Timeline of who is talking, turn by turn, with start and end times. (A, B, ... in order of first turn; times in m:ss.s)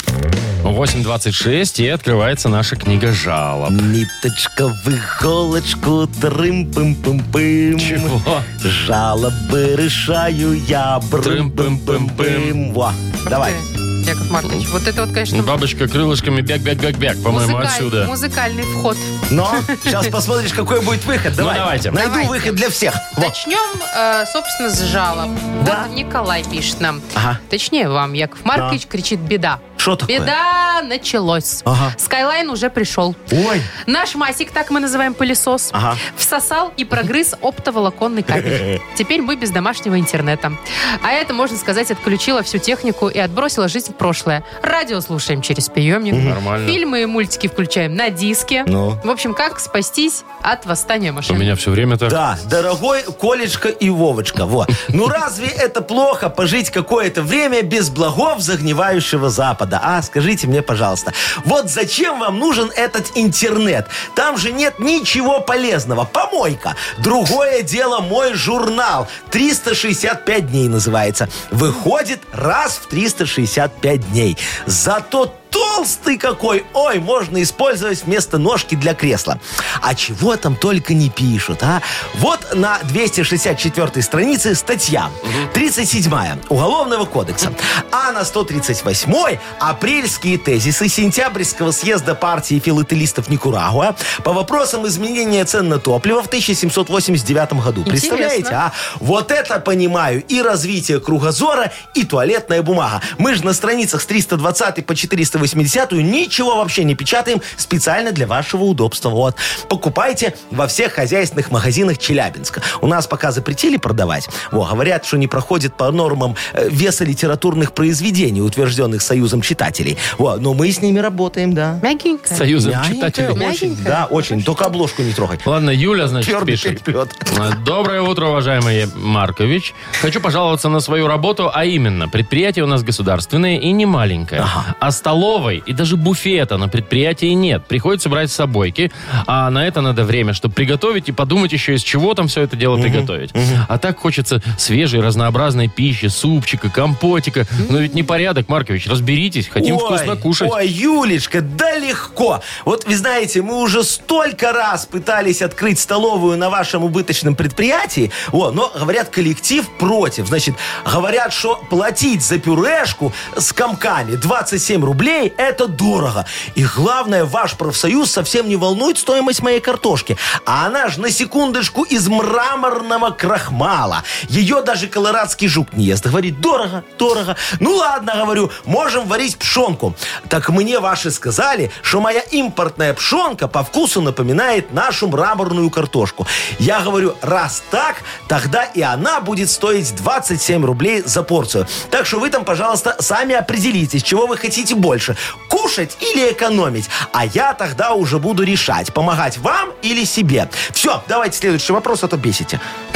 0:00.6-0:03.9 A
0:03.7-0:13.6 B
0:07.8-0:08.5 A
0:11.2-0:12.6 A
0:13.3-0:15.6 C
0:15.3-0:18.1 A
0:17.3-0:20.1 C
0:19.3-0:23.4 B
0:21.4-0:22.0 A
0:21.9-0:22.6 C
0:23.2-0:33.3 C
0:25.6-0:25.9 B
0:27.2-0:27.4 B
0:28.5-0:28.8 B
0:29.8-0:30.3 B
0:31.7-0:32.0 B
0:33.3-0:33.7 B
0:33.8-0:51.5 C
0:35.7-0:36.0 B
0:38.4-0:38.8 B
0:46.1-0:46.4 B
0:46.2-0:46.8 A
0:48.7-0:49.0 B
0:51.3-0:52.2 A
0:52.1-2:01.8 B
1:37.9-1:38.6 C
2:01.8-2:02.5 C
2:02.3-2:03.4 A
2:02.6-2:05.5 B
2:03.3-2:04.7 C
2:05.4-2:30.6 A
2:06.2-2:07.4 B
2:14.4-2:14.7 B
2:22.7-2:23.6 B
2:29.6-3:22.6 B